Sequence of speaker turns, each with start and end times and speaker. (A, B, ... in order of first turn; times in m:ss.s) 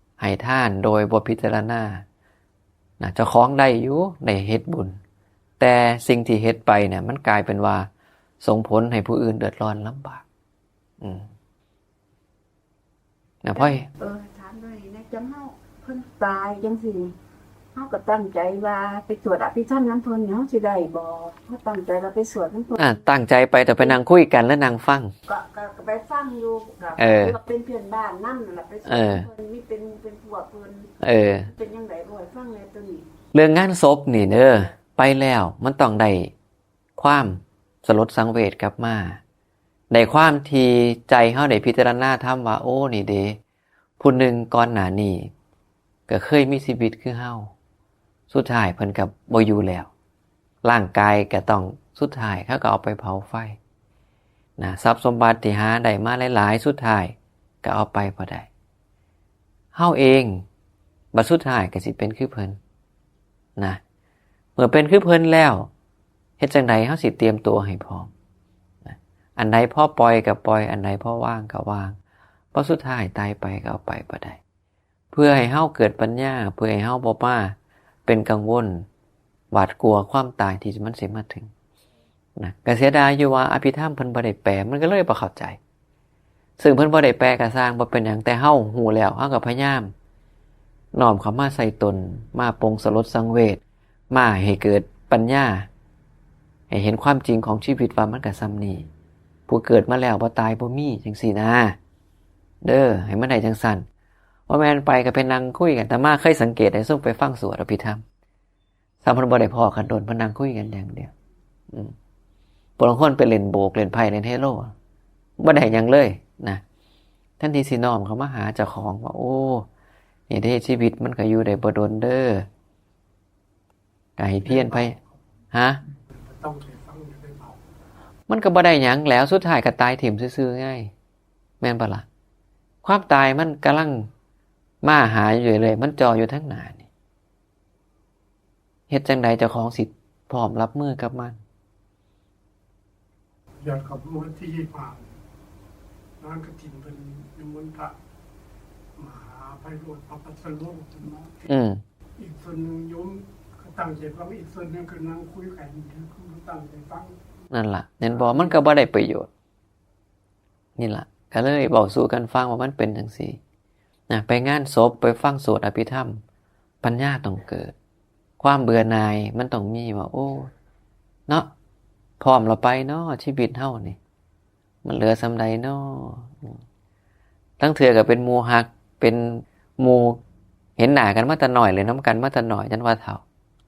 0:00.2-0:02.0 A
0:03.0-0:05.0 A
0:05.6-0:07.9 A
0:08.4-0:10.2 A
0:11.0-0:11.3 A
0:13.4-0:13.9 A
0:13.6-0:17.1 B
0:17.7-0:22.9 B
0:22.8-0:25.1 A
0:25.2-0:33.1 B
0:27.0-0:27.4 A
0:28.8-0:29.3 A
0:31.0-0:31.5 A
0:33.3-0:36.3 A
0:37.0-0:39.2 A
0:39.9-0:43.4 A
0:44.0-0:45.3 A
0:46.1-0:47.5 A
0:48.3-0:49.9 A
0:50.6-0:53.6 A
0:54.6-0:58.5 A
0:59.7-1:00.4 A
1:01.1-1:02.6 A
1:04.6-1:05.7 A
1:06.4-1:08.1 A
1:08.8-1:12.0 A
1:12.5-1:14.4 A
1:15.1-1:18.9 A
1:19.5-1:21.5 A
1:22.4-1:25.6 A
1:26.6-1:29.9 A
1:30.9-1:35.7 A
1:36.7-1:38.9 A
1:39.5-1:41.8 A
1:42.6-1:43.8 A
1:44.5-1:48.0 A
1:49.0-1:51.1 A
1:52.8-1:54.7 A
1:55.4-1:56.6 A
1:57.4-1:59.6 A
2:00.3-2:02.5 A
2:04.2-2:05.0 A
2:04.4-2:05.2 C
2:05.5-2:05.8 A
2:06.1-2:07.6 C
2:08.3-2:10.9 A
2:11.6-2:12.0 A
2:12.8-2:14.1 A
2:14.8-2:16.9 A
2:18.9-2:21.4 A
2:23.6-2:25.2 C
2:26.2-2:27.9 C
2:29.0-2:31.5 C
2:31.5-2:31.8 A
2:32.2-2:37.2 C
2:37.5-2:39.3 A
2:38.1-2:38.6 C
2:40.8-2:43.4 A
2:44.1-2:46.2 A
2:46.8-2:47.7 A
2:48.4-2:50.5 A
2:52.2-2:54.0 A
2:54.8-2:56.6 A
2:57.6-3:00.2 A
3:00.8-3:03.2 A